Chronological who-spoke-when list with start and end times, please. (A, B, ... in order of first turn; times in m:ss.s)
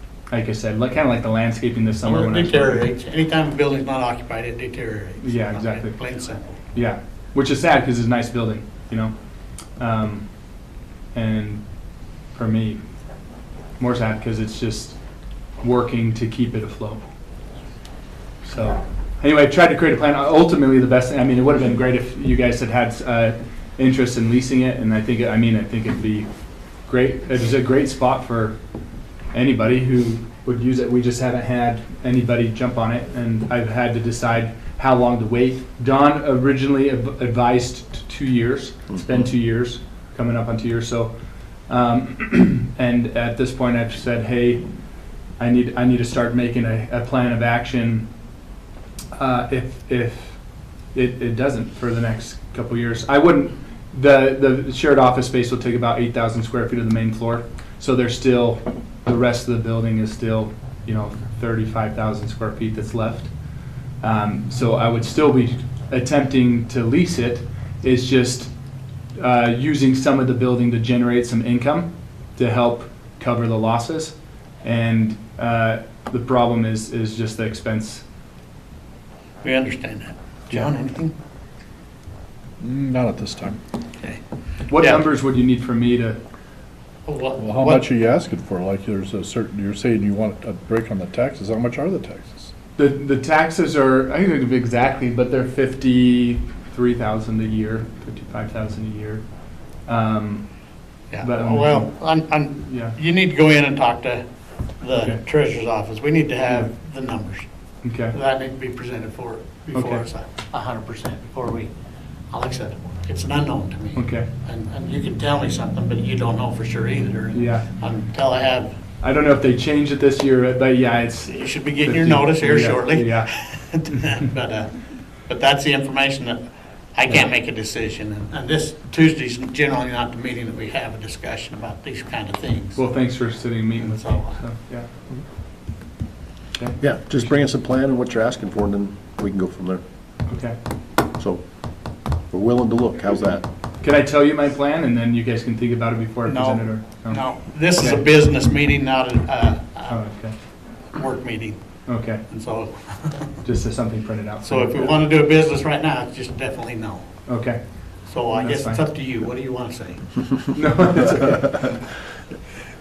0:00.3-0:02.9 A
0:02.0-0:06.6 B
0:05.2-0:06.0 A
0:06.7-0:09.1 A
0:09.8-0:10.3 A
0:11.1-0:11.6 A
0:12.3-0:12.8 A
0:13.8-0:15.0 A
0:15.6-0:17.0 A
0:18.4-0:26.3 A
0:26.8-0:28.5 A
0:29.3-0:41.1 A
0:38.9-0:39.3 C
0:41.7-0:44.6 A
0:45.4-0:48.1 A
0:49.1-1:03.3 A
1:04.0-1:08.5 A
1:09.2-1:18.0 A
1:19.4-1:21.1 B
1:22.6-1:23.6 D
1:24.7-1:26.2 A
1:24.7-1:25.0 B
1:27.0-1:27.8 B
1:27.4-1:32.5 D
1:32.8-1:40.5 A
1:41.1-1:44.2 B
1:41.2-1:41.9 A
1:42.6-1:43.0 A
1:44.8-1:47.4 B
1:47.8-1:48.1 A
1:48.1-1:51.7 B
1:49.7-1:50.0 A
1:52.3-1:58.8 B
1:53.9-1:54.3 A
1:57.3-1:57.7 A
1:59.0-2:03.3 A
2:01.3-2:06.4 B
2:06.9-2:12.8 B
2:12.8-2:14.9 A
2:13.8-2:14.4 B
2:16.6-2:17.3 A
2:16.8-2:19.8 C
2:20.3-2:20.6 A
2:21.2-2:21.4 C
2:22.3-2:23.4 C
2:23.8-2:27.2 A
2:26.2-2:30.0 B
2:27.8-2:28.0 A
2:29.9-2:30.3 A
2:30.9-2:31.6 B
2:31.9-2:32.2 A
2:32.2-2:33.3 B
2:33.4-2:35.0 A
2:34.4-2:37.2 B
2:37.3-2:37.8 A
2:38.1-2:40.5 B
2:38.3-2:38.8 A
2:40.5-2:41.8 A